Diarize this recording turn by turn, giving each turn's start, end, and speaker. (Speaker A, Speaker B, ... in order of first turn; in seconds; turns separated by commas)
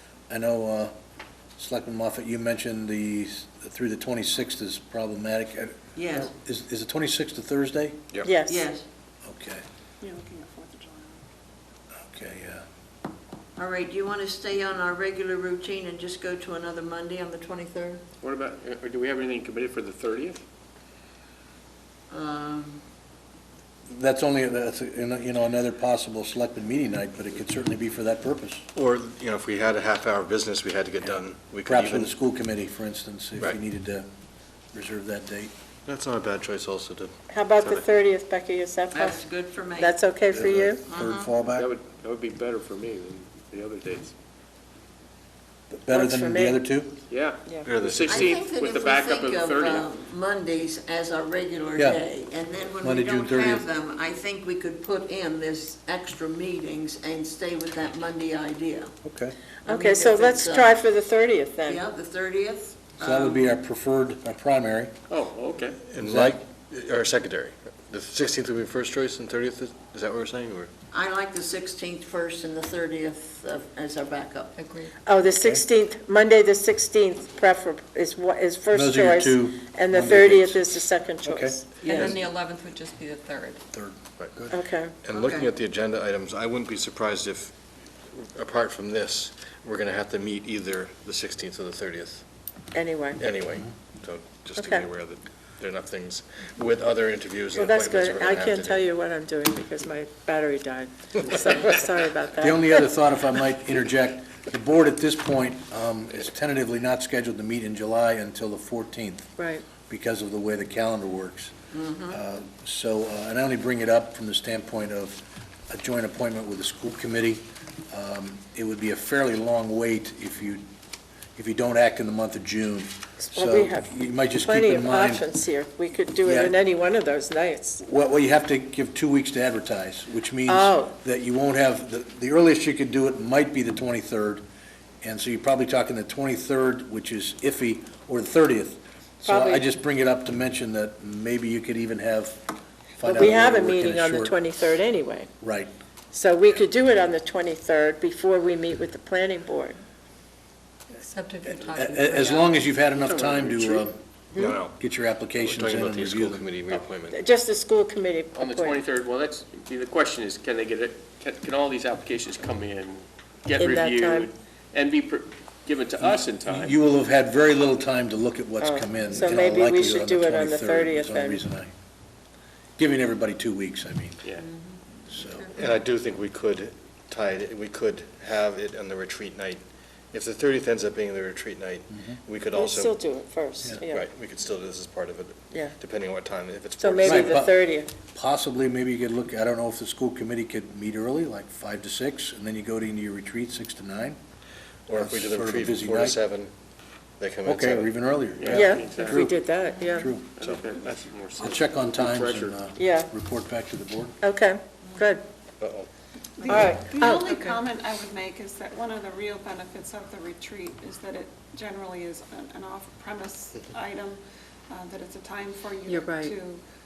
Speaker A: 0.3-0.9, Speaker A: 1.6-8.0, Speaker B: 6.0-6.3, Speaker C: 8.1-8.4, Speaker D: 8.2-8.7, Speaker B: 8.4-8.8, Speaker A: 9.2-9.6, Speaker E: 10.0-11.2, Speaker A: 12.0-12.6, Speaker B: 13.6-18.0, Speaker F: 18.2-20.4, Speaker B: 22.1-22.8, Speaker A: 23.9-28.6, Speaker C: 28.7-32.1, Speaker A: 31.6-34.1, Speaker A: 34.7-35.5, Speaker C: 35.9-37.8, Speaker D: 37.3-39.2, Speaker B: 38.9-40.0, Speaker D: 39.8-40.8, Speaker A: 40.3-41.7, Speaker B: 40.9-41.3, Speaker F: 41.5-44.1, Speaker A: 45.7-46.9, Speaker D: 45.9-46.6, Speaker F: 47.1-49.9, Speaker C: 47.6-48.4, Speaker B: 48.0-58.9, Speaker A: 51.8-52.0, Speaker A: 52.8-53.6, Speaker A: 59.0-59.3, Speaker D: 59.7-61.8, Speaker B: 59.7-60.7, Speaker B: 61.6-63.5, Speaker A: 63.0-64.9, Speaker F: 65.1-65.8, Speaker C: 65.9-70.7, Speaker A: 66.0-66.4, Speaker B: 70.9-74.5, Speaker G: 74.5-74.9, Speaker D: 75.0-81.6, Speaker A: 75.4-75.6, Speaker A: 78.7-80.7, Speaker A: 81.2-82.2, Speaker G: 81.8-83.6, Speaker A: 83.7-84.5, Speaker D: 84.5-84.9, Speaker C: 85.0-87.5, Speaker C: 88.1-92.2, Speaker D: 92.7-93.2, Speaker C: 93.2-98.8, Speaker D: 94.6-94.8, Speaker D: 97.5-102.9, Speaker A: 102.4-109.3, Speaker D: 109.4-109.6, Speaker A: 109.9-111.5, Speaker A: 112.1-120.6, Speaker A: 121.3-125.2, Speaker D: 123.2-127.8, Speaker A: 126.2-126.5, Speaker A: 127.8-134.4, Speaker D: 130.5-130.9, Speaker A: 135.0-144.4, Speaker D: 139.2-139.6, Speaker D: 143.0-145.3, Speaker A: 145.4-145.7, Speaker D: 146.1-149.8, Speaker G: 150.9-152.6, Speaker A: 151.7-156.4, Speaker F: 153.0-153.8, Speaker C: 154.3-154.8, Speaker C: 155.4-157.2, Speaker D: 157.1-158.8, Speaker F: 158.3-166.7, Speaker D: 163.6-164.3, Speaker A: 166.0-171.7, Speaker D: 168.6-171.4, Speaker A: 172.8-174.2, Speaker G: 174.4-175.5, Speaker A: 175.1-175.5, Speaker C: 175.5-182.9, Speaker A: 181.9-182.2, Speaker D: 182.5-184.1, Speaker C: 183.9-187.4, Speaker D: 186.8-187.9, Speaker A: 187.0-194.2, Speaker C: 194.9-196.5, Speaker A: 194.9-196.2, Speaker C: 197.2-197.9, Speaker A: 197.4-199.4, Speaker F: 198.4-199.3, Speaker D: 198.5-200.1, Speaker A: 199.9-200.3, Speaker F: 200.4-202.6, Speaker C: 200.4-201.4, Speaker A: 201.4-204.1, Speaker D: 202.8-203.1, Speaker D: 204.2-205.2, Speaker C: 205.6-205.9, Speaker E: 206.4-216.6, Speaker D: 206.4-207.6, Speaker D: 215.9-216.3